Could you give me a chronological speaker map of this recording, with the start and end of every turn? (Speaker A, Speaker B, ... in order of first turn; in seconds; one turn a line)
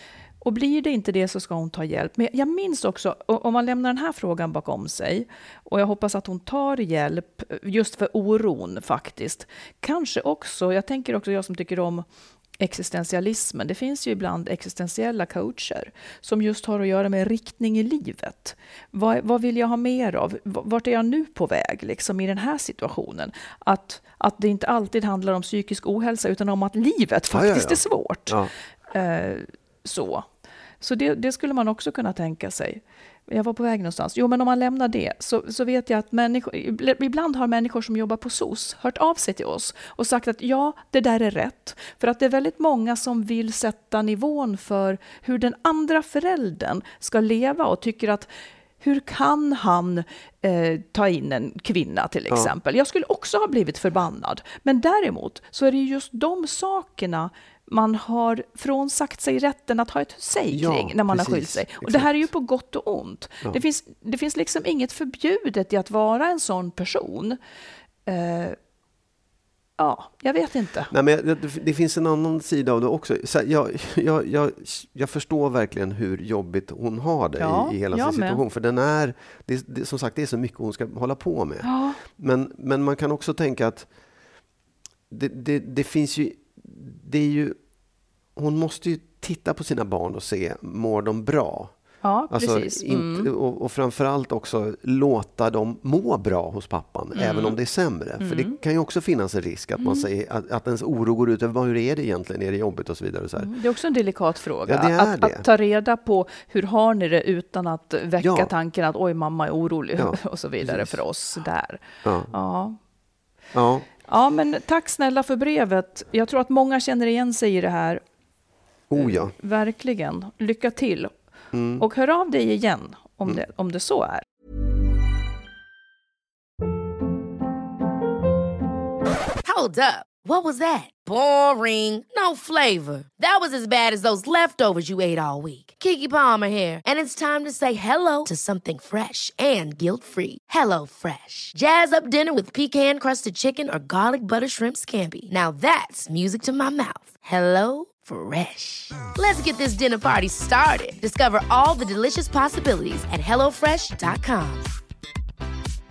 Speaker A: 0.4-12.0
Speaker A: 12.6-28.4
Speaker B: 27.3-28.5
Speaker A: 28.9-30.3
Speaker A: 30.8-48.3
Speaker A: 48.8-67.4
Speaker B: 60.5-62.2
Speaker A: 68.1-68.6
Speaker A: 69.8-70.9
Speaker B: 70.9-83.9
Speaker A: 77.4-78.4
Speaker A: 81.6-82.0
Speaker B: 85.1-87.6
Speaker B: 88.4-91.8
Speaker A: 92.0-93.3
Speaker B: 92.3-103.5
Speaker A: 97.2-97.6
Speaker A: 98.2-98.5
Speaker A: 99.8-100.1
Speaker A: 103.4-112.8
Speaker B: 104.7-105.5
Speaker B: 108.2-108.5
Speaker B: 110.0-111.0
Speaker B: 112.0-112.3
Speaker B: 113.5-113.9
Speaker A: 114.1-118.0
Speaker B: 118.9-119.3
Speaker A: 119.0-121.1
Speaker B: 121.5-121.8
Speaker A: 121.8-124.2
Speaker C: 129.4-154.7